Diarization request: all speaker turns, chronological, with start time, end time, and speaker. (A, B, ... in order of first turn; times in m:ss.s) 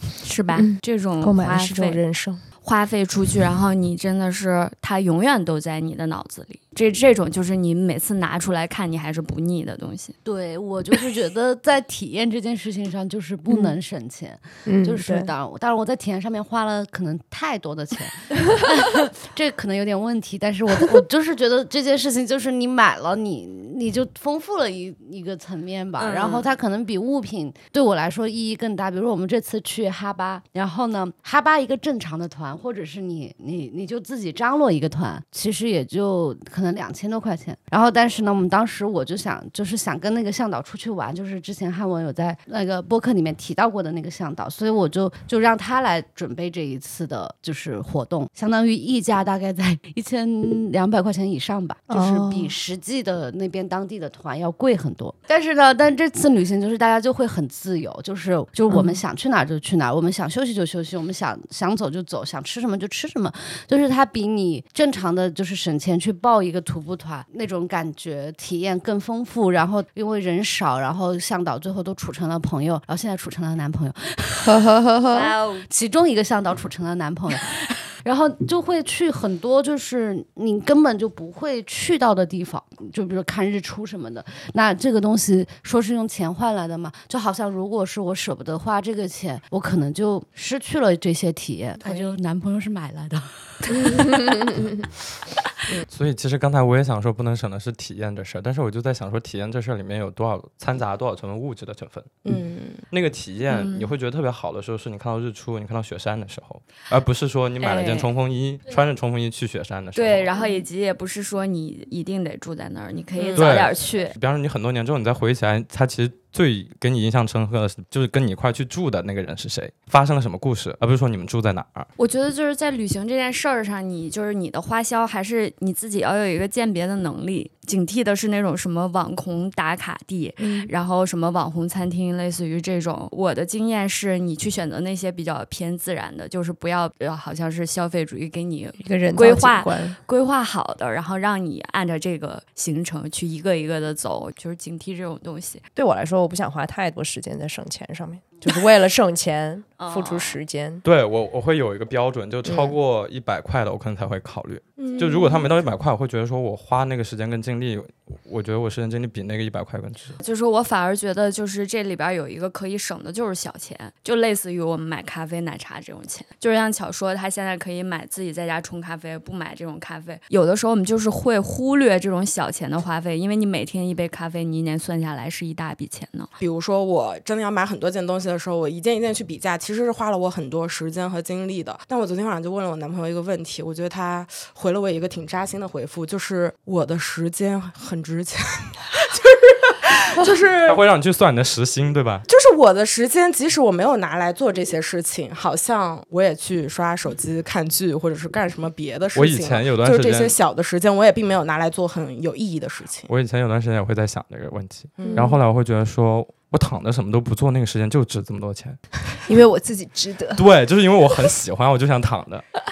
0:00.2-0:02.0 A
0:00.6-0:02.4 B
0:02.6-0:10.2 A
0:10.2-1:14.5 C
0:13.5-0:13.8 B
0:14.6-0:15.3 B
0:26.0-0:26.5 A
0:51.9-0:52.5 B
0:58.7-0:59.0 B
1:14.4-1:15.3 B
1:15.1-1:15.7 A
1:15.6-1:33.3 C
1:33.7-1:34.8 B
1:35.8-1:42.2 D
1:42.2-1:42.8 E
1:42.9-1:50.4 D
1:43.5-1:43.9 A
1:47.6-1:48.1 A
1:49.9-1:54.2 A
1:53.3-2:01.9 D
2:02.0-2:25.6 A
2:10.4-2:10.7 B
2:18.8-2:20.0 B
2:25.8-2:30.8 B
2:29.8-2:30.4 A
2:30.8-2:40.2 D
2:34.8-2:35.5 E
2:40.2-2:56.3 A
2:56.4-3:10.8 E
3:10.6-3:12.2 D
3:12.3-3:23.1 E
3:19.1-3:20.4 D
3:23.1-3:28.8 D
3:25.0-3:25.4 E
3:25.0-3:25.4 B
3:29.3-3:30.4 B
3:30.4-3:32.4 D